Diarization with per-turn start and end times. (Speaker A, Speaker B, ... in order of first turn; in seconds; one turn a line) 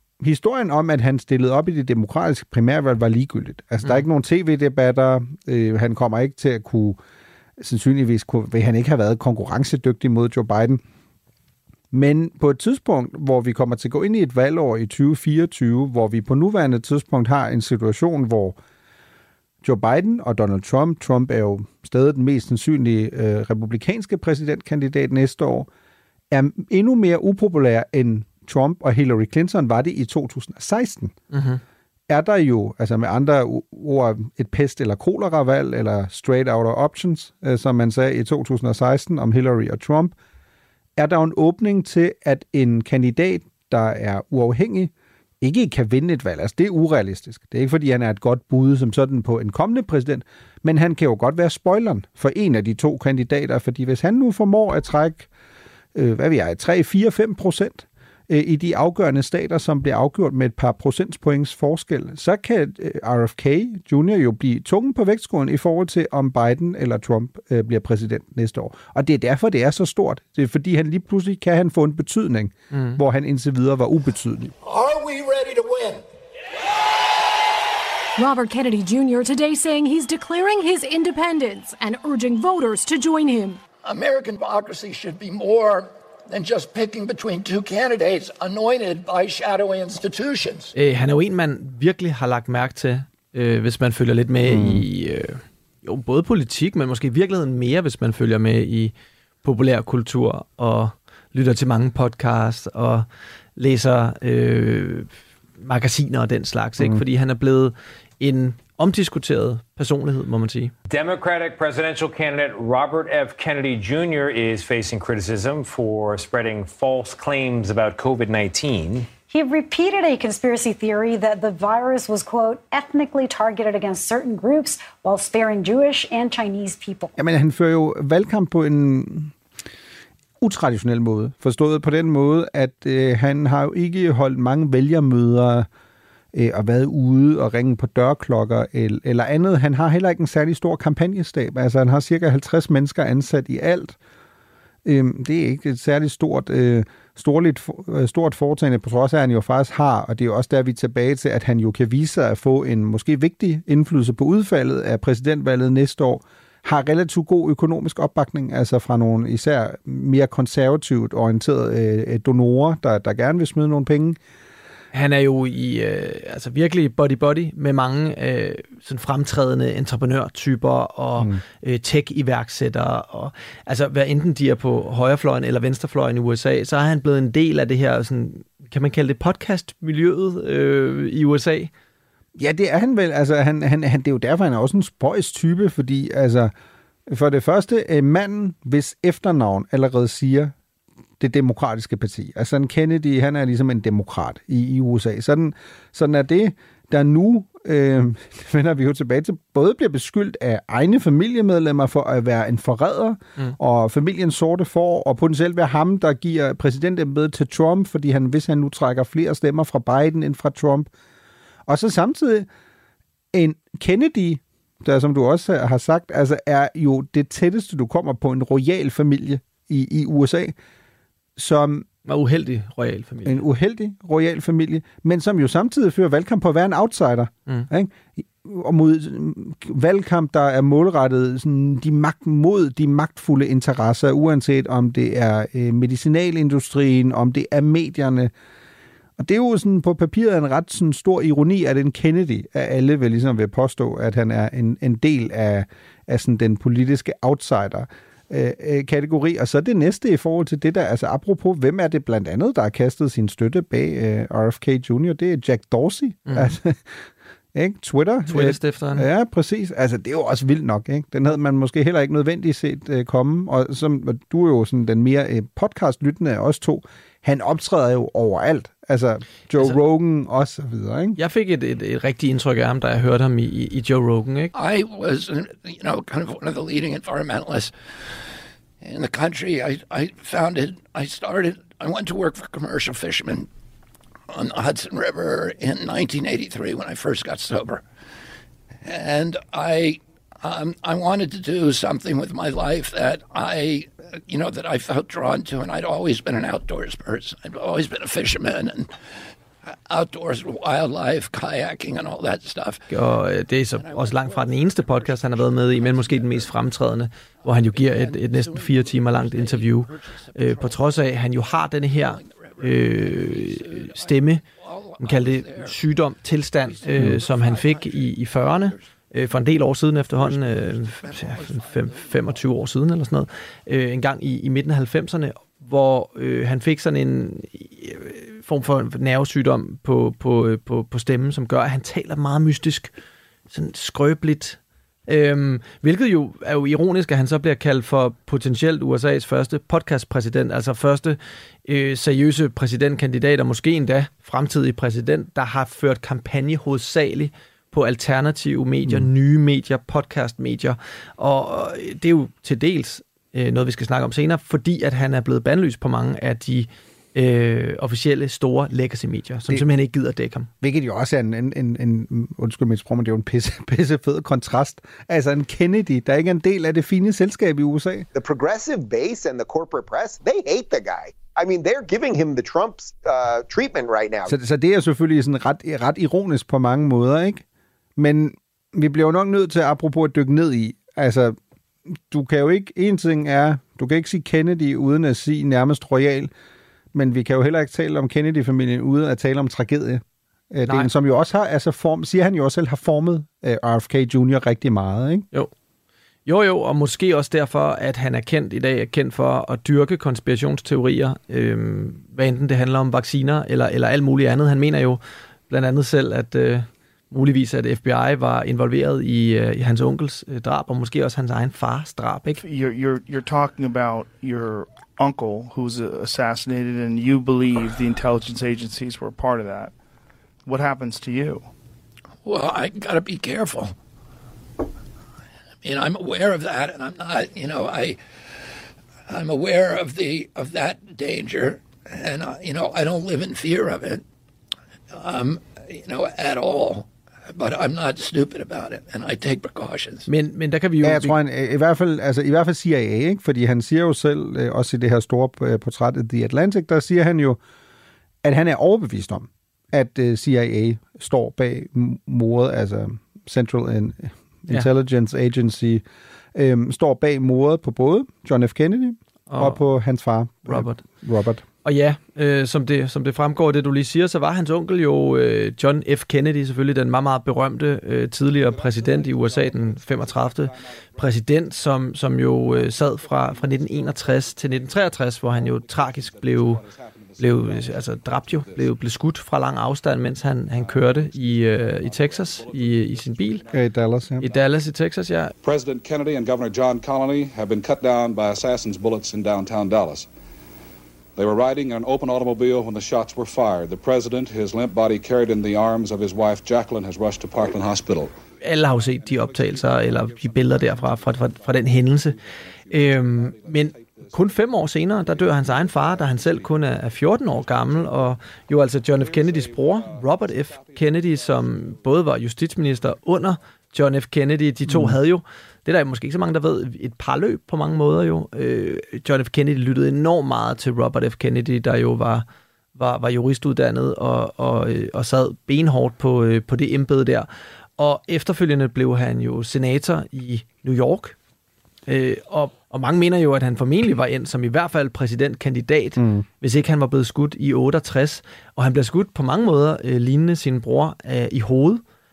Speaker A: 0.2-7.0
Speaker A: 7.6-10.8
Speaker A: 11.9-18.6
Speaker A: 19.6-25.7
Speaker A: 26.3-31.1
Speaker B: 31.3-31.6
Speaker A: 32.1-40.1
Speaker A: 41.0-55.3
Speaker A: 55.9-74.5
Speaker B: 72.7-73.0
Speaker C: 74.6-76.0
Speaker D: 78.2-83.6
Speaker C: 83.8-90.7
Speaker B: 90.7-103.0
Speaker A: 94.4-94.8
Speaker B: 103.6-110.7
Speaker E: 110.9-119.1
Speaker F: 119.3-127.1
Speaker A: 127.2-129.3
Speaker A: 130.4-135.7
Speaker A: 136.3-144.0
Speaker A: 144.8-164.2
Speaker B: 164.9-181.7
Speaker A: 182.3-186.5
Speaker A: 187.1-190.5
Speaker A: 191.2-210.9
Speaker A: 211.7-212.5
Speaker A: 213.3-220.5
Speaker A: 221.4-221.8
Speaker B: 222.1-223.4
Speaker A: 223.2-238.3
Speaker A: 239.2-271.2
Speaker B: 256.3-256.5
Speaker B: 258.3-259.1
Speaker B: 271.2-274.5
Speaker C: 274.5-278.2
Speaker C: 278.8-283.5
Speaker C: 284.3-287.8
Speaker C: 288.8-298.9
Speaker C: 299.9-302.8
Speaker B: 302.9-314.4
Speaker C: 303.7-306.5
Speaker C: 307.4-315.8
Speaker B: 315.0-332.9
Speaker C: 316.6-318.8
Speaker C: 320.1-322.5
Speaker B: 333.5-360.5
Speaker A: 360.6-368.1
Speaker G: 368.1-374.3
Speaker A: 374.2-377.4
Speaker A: 378.0-381.4
Speaker A: 382.1-386.3
Speaker A: 386.9-395.2
Speaker B: 396.2-412.4
Speaker H: 412.4-419.7
Speaker H: 420.4-421.5
Speaker C: 422.2-423.7
Speaker C: 425.6-428.0
Speaker C: 429.1-434.0
Speaker C: 434.9-440.1
Speaker B: 440.1-441.1
Speaker A: 440.8-447.4
Speaker A: 448.2-455.8
Speaker A: 456.3-461.4
Speaker B: 459.3-459.6
Speaker B: 460.4-460.8
Speaker B: 461.6-476.6
Speaker I: 468.4-471.1
Speaker I: 472.5-478.7
Speaker B: 477.2-483.4
Speaker I: 480.4-484.4
Speaker A: 483.5-484.3
Speaker B: 484.2-485.3
Speaker I: 485.4-490.1
Speaker I: 491.1-512.2
Speaker B: 498.4-502.1
Speaker B: 502.7-522.2
Speaker I: 512.7-513.0
Speaker A: 514.6-515.0
Speaker B: 522.8-527.3
Speaker B: 527.8-531.1
Speaker B: 531.9-541.8
Speaker A: 536.0-536.2